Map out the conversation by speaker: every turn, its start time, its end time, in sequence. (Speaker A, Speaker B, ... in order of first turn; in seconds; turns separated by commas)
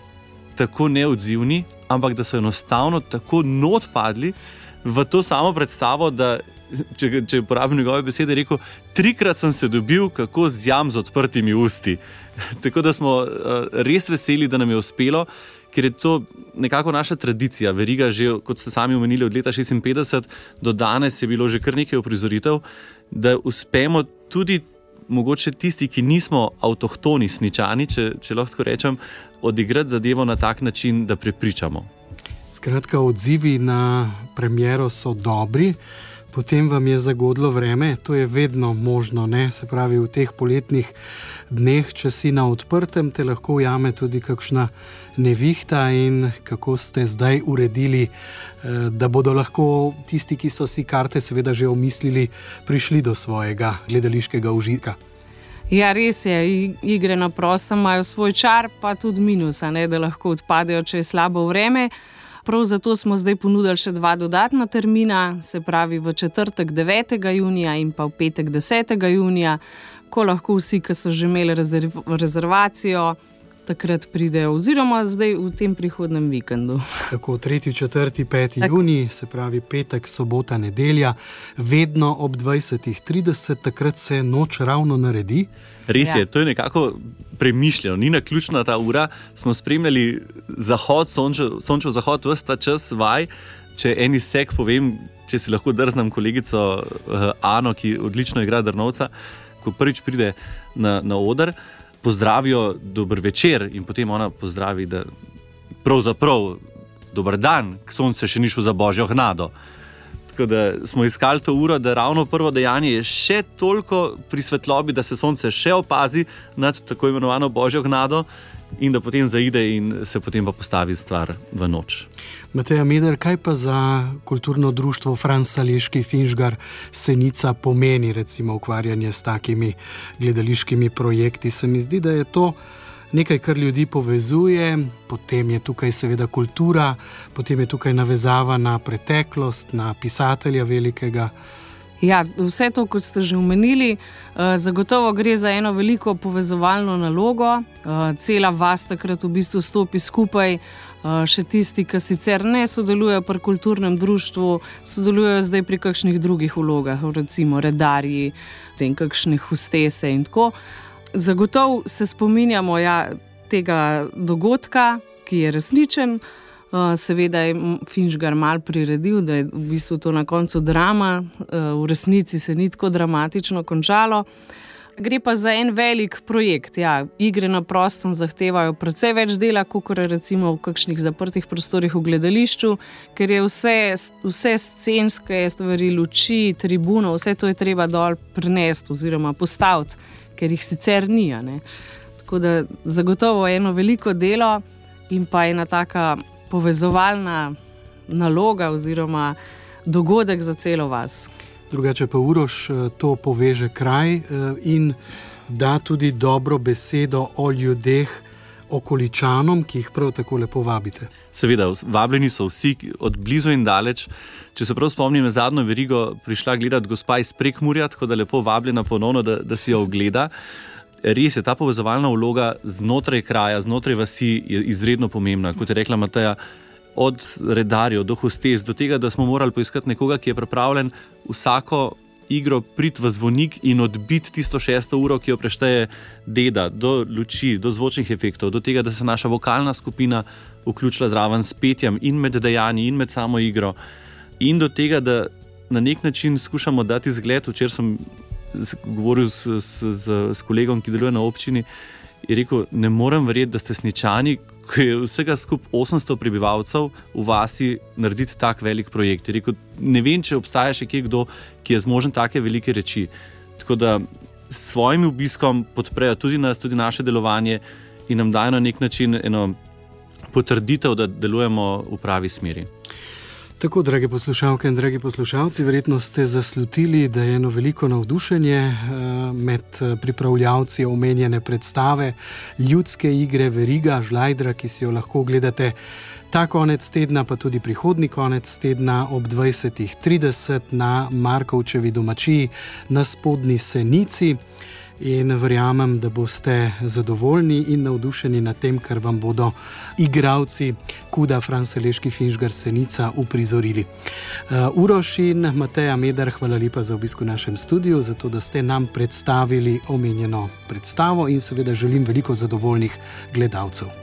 Speaker A: 0.6-31.9, Speaker B: 32.5-35.8, Speaker B: 36.3-41.0, Speaker B: 41.5-48.1, Speaker B: 48.6-55.0, Speaker C: 55.7-61.9, Speaker C: 62.5-76.8, Speaker B: 77.1-85.5, Speaker A: 85.9-105.1, Speaker C: 86.0-86.2, Speaker A: 105.8-109.5, Speaker A: 110.3-118.3, Speaker A: 118.8-122.1, Speaker B: 122.5-132.6, Speaker B: 133.1-141.3, Speaker C: 142.0-160.5, Speaker C: 161.1-174.3, Speaker C: 175.0-191.6, Speaker C: 192.2-197.5, Speaker C: 198.1-201.3, Speaker B: 201.7-205.0, Speaker B: 205.5-211.1, Speaker A: 211.3-220.3, Speaker A: 221.0-226.4, Speaker A: 226.9-243.8, Speaker A: 244.4-251.7, Speaker A: 252.2-269.6, Speaker A: 270.3-272.7, Speaker B: 273.6-285.8, Speaker B: 286.3-294.4, Speaker B: 295.0-303.9, Speaker B: 304.5-313.9